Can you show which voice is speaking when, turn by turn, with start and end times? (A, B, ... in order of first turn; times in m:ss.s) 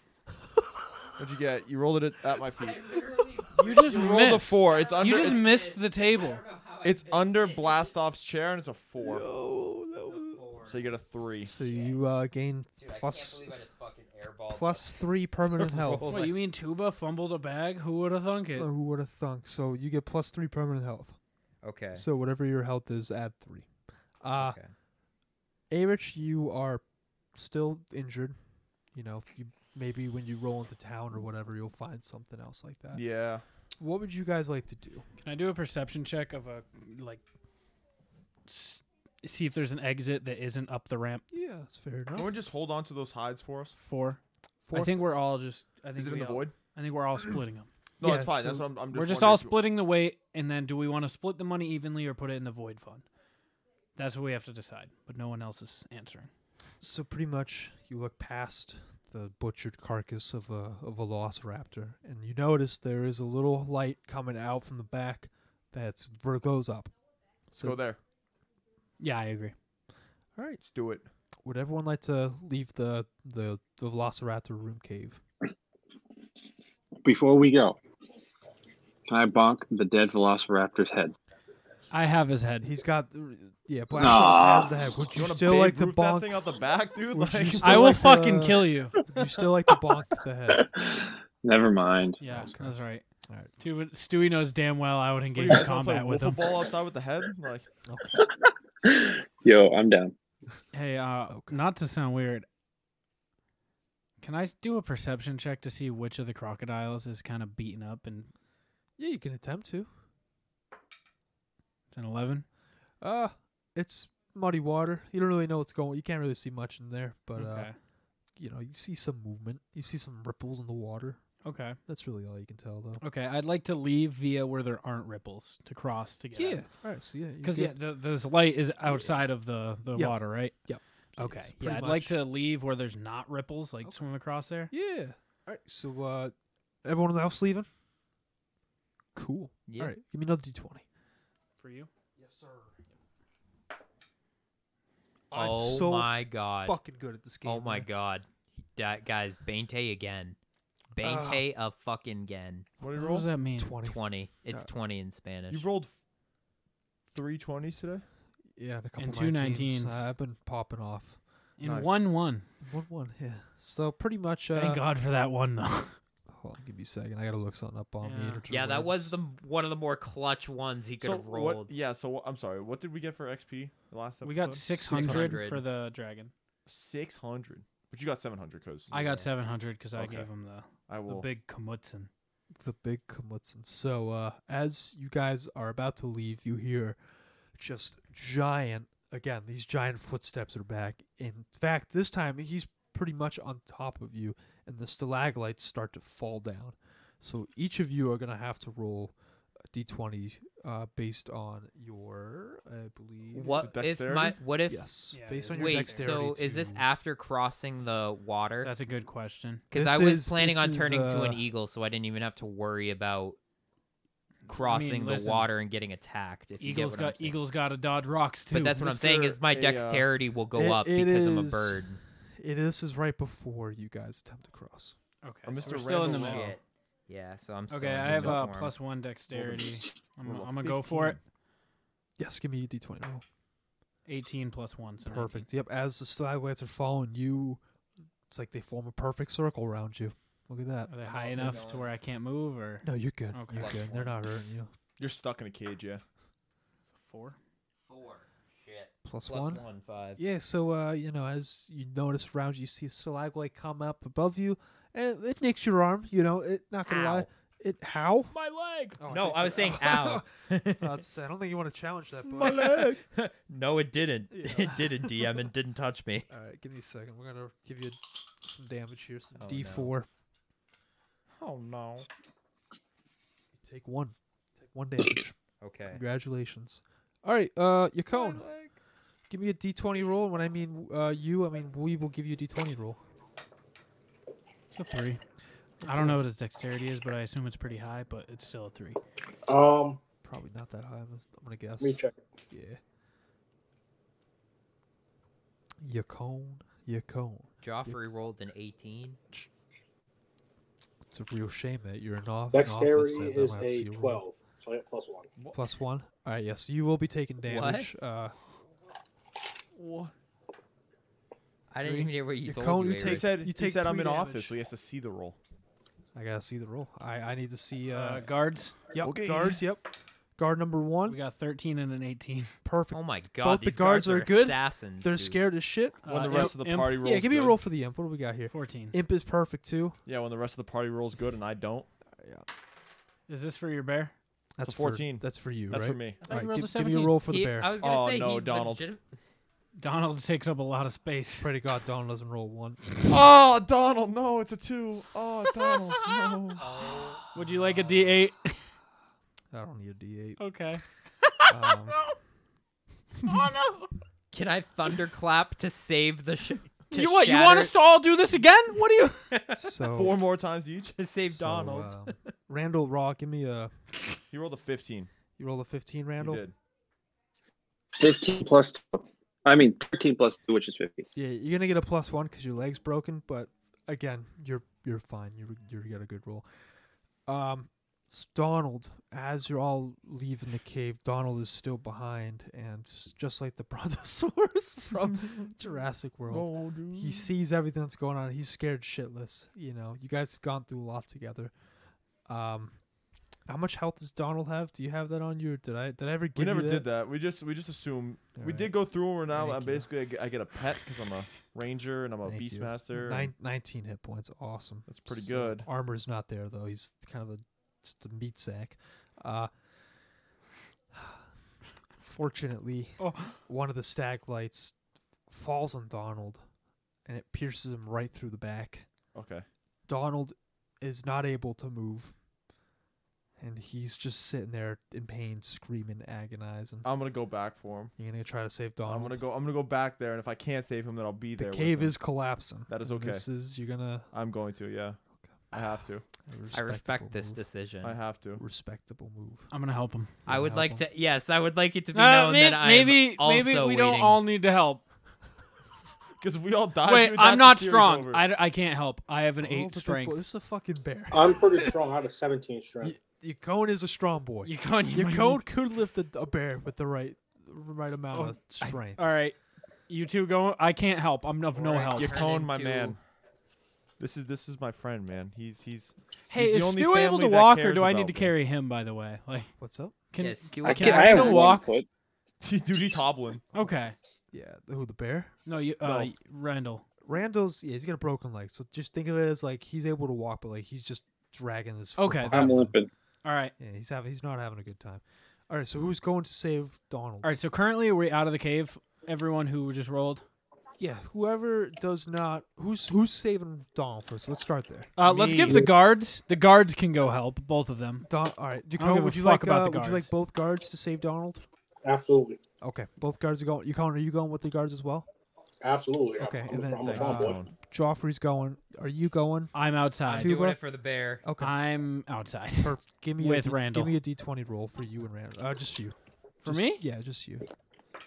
0:00.4-0:01.1 A
0:01.2-0:03.0 B
0:02.5-0:07.9 C
0:03.5-0:06.4 D
0:03.8-0:05.5 B
0:06.8-0:09.3 B
0:09.0-0:10.4 A
0:10.0-0:10.9 C
0:10.6-0:11.5 B
0:11.4-0:13.5 A
0:11.5-0:12.1 C
0:12.8-0:16.3 C
0:14.5-0:16.2 A
0:16.0-0:18.7 D
0:18.6-0:21.2 A
0:21.6-0:22.0 C
0:21.9-0:23.6 A
0:24.2-0:24.6 A
0:24.4-0:24.7 C
0:25.7-0:26.8 A
0:27.3-0:28.4 A
0:28.9-0:33.0 A
0:32.9-0:33.4 B
0:33.8-0:35.0 A
0:35.2-0:37.2 D
0:38.5-0:41.2 D
0:41.3-0:42.4 A
0:42.1-0:43.8 B
0:43.8-0:44.2 D
0:44.6-0:45.0 A
0:44.7-0:47.7 D
0:45.9-0:46.5 B
0:48.0-0:49.6 B
0:48.0-0:48.7 A
0:48.9-0:53.0 D
0:53.9-0:56.3 D
0:56.8-1:06.9 A
1:07.5-1:07.8 A
1:07.6-1:08.0 B
1:09.0-1:09.5 D
1:10.4-1:10.6 A
1:10.6-1:11.1 B
1:11.4-1:15.2 A
1:17.0-1:17.8 E
1:19.1-1:21.1 E
1:21.9-1:22.7 D
1:22.6-1:26.4 A
1:23.9-1:24.9 E
1:25.1-1:28.0 B
1:27.1-1:30.6 A
1:27.6-1:29.0 D
1:30.5-1:32.2 E
1:32.2-1:33.0 D
1:32.2-1:32.7 A
1:33.6-1:36.5 D
1:35.3-1:37.7 B
1:37.9-1:38.2 A
1:38.8-1:40.1 E
1:40.7-1:42.4 D
1:41.3-1:41.6 A
1:44.2-1:48.3 D
1:49.0-1:49.9 A
1:51.9-1:52.4 D
1:53.0-1:57.7 A
1:57.3-1:57.8 D
1:58.4-2:01.2 A
2:01.4-2:01.8 D
2:01.8-2:03.0 A
2:03.0-2:06.6 D
2:06.3-2:07.8 A
2:07.4-2:10.6 D
2:09.9-2:12.2 A
2:11.2-2:14.7 D
2:14.7-2:17.7 A
2:19.2-2:20.8 A
2:19.7-2:19.9 C
2:21.6-2:21.9 D
2:22.2-2:22.8 A
2:25.3-2:27.9 A
2:25.3-2:26.8 C
2:27.4-2:30.4 C
2:30.9-2:32.7 C
2:31.0-2:31.4 A
2:32.8-2:33.3 B
2:32.9-2:33.7 D
2:33.6-2:34.0 A
2:33.8-2:35.6 C
2:35.5-2:35.9 B
2:37.1-2:38.0 B
2:38.6-2:41.2 A
2:39.0-2:40.0 D
2:41.6-2:42.5 D
2:41.6-2:42.0 B
2:42.6-2:44.8 A
2:44.5-2:46.0 D
2:46.3-2:49.1 A
2:48.0-2:48.4 D
2:48.5-2:51.7 C
2:51.0-2:55.4 B
2:54.2-2:56.3 D
2:54.8-2:55.6 C
2:56.7-2:58.9 B
2:58.9-2:59.3 C
2:58.9-3:02.1 D
2:59.9-3:00.3 B
3:00.9-3:01.3 B
3:02.6-3:07.0 A
3:07.6-3:19.1 A
3:19.7-3:23.8 A
3:23.3-3:24.8 C
3:23.5-3:24.4 B
3:24.7-3:26.8 A
3:25.1-3:26.1 D
3:25.5-3:28.7 C
3:28.6-3:29.6 D
3:29.7-3:33.4 C
3:29.7-3:31.4 A
3:34.4-3:35.5 D
3:34.5-3:37.4 C
3:36.6-3:39.2 D
3:38.5-3:42.0 C
3:39.0-3:40.1 B
3:40.5-3:41.8 A
3:42.4-3:45.0 A
3:45.2-3:46.6 D
3:45.4-3:46.5 B
3:46.0-3:48.7 C
3:47.7-3:51.2 D
3:48.1-3:48.4 B
3:49.3-3:51.2 B
3:52.2-3:53.2 A
3:54.0-3:55.5 D
3:55.0-3:57.6 A
3:58.3-4:00.9 A
4:00.9-4:03.8 D
4:01.0-4:01.9 C
4:02.8-4:04.7 A
4:03.5-4:04.2 C
4:05.0-4:06.0 B
4:06.9-4:07.4 D
4:07.8-4:10.2 C
4:09.0-4:09.6 A
4:10.2-4:18.3 A
4:16.8-4:17.3 C
4:18.3-4:21.0 C
4:19.0-4:22.8 A
4:22.2-4:23.0 B
4:22.4-4:26.3 C
4:24.3-4:25.2 A
4:26.3-4:30.1 A
4:29.4-4:29.9 C
4:31.4-4:32.1 C
4:33.6-4:35.3 A
4:35.6-4:36.0 C
4:35.9-4:38.4 A
4:38.1-4:38.8 C
4:39.3-4:43.0 A
4:44.7-4:45.2 D
4:45.8-4:46.2 A
4:45.8-4:49.0 D
4:49.5-4:50.0 F
4:50.2-4:52.0 A
4:51.8-4:52.1 F
4:52.5-4:52.8 A
4:55.8-4:58.0 A
4:57.6-4:59.2 C
5:01.1-5:04.2 A
5:02.5-5:05.3 F
5:05.5-5:08.4 A
5:07.5-5:07.9 C
5:09.7-5:10.1 B
5:11.7-5:13.3 C
5:11.8-5:12.1 D
5:12.4-5:14.5 A
5:13.0-5:15.4 B
5:16.1-5:18.3 A
5:17.9-5:18.8 D
5:18.9-5:19.8 A
5:19.0-5:19.6 B
5:20.4-5:21.2 A
5:21.1-5:22.5 D
5:22.6-5:30.0 A
5:22.9-5:25.4 C
5:26.0-5:27.0 D
5:26.0-5:27.6 B
5:28.5-5:29.0 D
5:30.0-5:31.9 B
5:32.2-5:32.4 A
5:33.3-5:34.1 D
5:34.6-5:37.7 A
5:34.6-5:36.2 B
5:36.3-5:37.2 D
5:37.3-5:39.0 C
5:37.8-5:38.8 B
5:39.8-5:41.5 D
5:41.4-5:42.8 A
5:43.1-5:46.7 B
5:46.0-5:46.3 D
5:46.6-5:47.2 C
5:47.3-5:48.6 D
5:47.3-5:48.0 A
5:49.5-5:50.4 A
5:50.4-5:51.4 D
5:51.5-5:52.0 A
5:53.3-5:53.9 D
5:54.3-5:57.7 C
5:56.9-5:59.3 D
5:59.3-5:59.6 C
5:59.5-6:00.2 A
5:59.9-6:01.0 B
6:00.9-6:02.1 C
6:01.2-6:03.7 A
6:04.3-6:05.1 B
6:05.4-6:06.4 A
6:06.2-6:06.5 B
6:07.9-6:11.0 E
6:11.1-6:16.4 A
6:17.3-6:31.5 A
6:26.3-6:27.2 B
6:32.3-6:32.8 A
6:33.5-6:36.8 A
6:36.3-6:43.3 B
6:38.4-6:38.7 A
6:39.3-6:39.9 A
6:42.2-6:49.5 A
6:44.9-6:45.7 B
6:52.0-6:54.7 A
6:53.0-6:53.4 D
6:55.3-6:56.4 A
6:57.0-6:58.9 A
6:59.1-6:59.4 B
6:59.9-7:02.1 A
7:03.4-7:06.9 A
7:06.8-7:07.9 B
7:08.0-7:09.2 A
7:08.8-7:12.0 B
7:11.4-7:14.1 A
7:12.7-7:13.2 B
7:14.1-7:15.0 B
7:15.5-7:16.0 B
7:16.1-7:17.4 A
7:16.5-7:18.0 C
7:17.8-7:18.4 B
7:18.4-7:19.5 A
7:19.5-7:20.1 D
7:20.2-7:20.8 A
7:20.3-7:24.2 C
7:21.9-7:24.8 D
7:26.2-7:28.3 B
7:26.8-7:30.2 D
7:29.4-7:31.7 A
7:31.1-7:32.9 F
7:32.8-7:39.0 A
7:34.4-7:35.4 D
7:38.1-7:39.4 D
7:39.9-7:42.2 D
7:41.5-7:43.0 C
7:41.9-7:43.0 B
7:44.0-7:48.3 B
7:46.3-7:49.5 D
7:49.6-7:50.0 A
7:50.1-7:51.6 D
7:50.2-7:51.6 C
7:50.6-7:51.9 E
7:52.4-7:53.5 B
7:53.5-7:54.0 D
7:54.3-7:55.3 A
7:55.4-7:56.8 D
7:55.8-7:56.1 B
7:57.0-8:02.8 A
8:02.0-8:02.6 D
8:02.3-8:02.9 E
8:03.2-8:03.5 D
8:03.6-8:07.4 A
8:07.2-8:10.2 D
8:10.8-8:15.7 A
8:15.0-8:18.1 D
8:18.0-8:21.5 A
8:18.8-8:20.1 D
8:21.8-8:22.4 F
8:22.6-8:25.1 A
8:25.6-8:27.4 F
8:26.2-8:29.5 A
8:26.8-8:27.5 B
8:29.5-8:30.4 D
8:30.0-8:31.2 C
8:30.1-8:30.6 A
8:31.2-8:31.5 A
8:31.4-8:34.0 D
8:32.6-8:37.4 A
8:36.4-8:36.8 D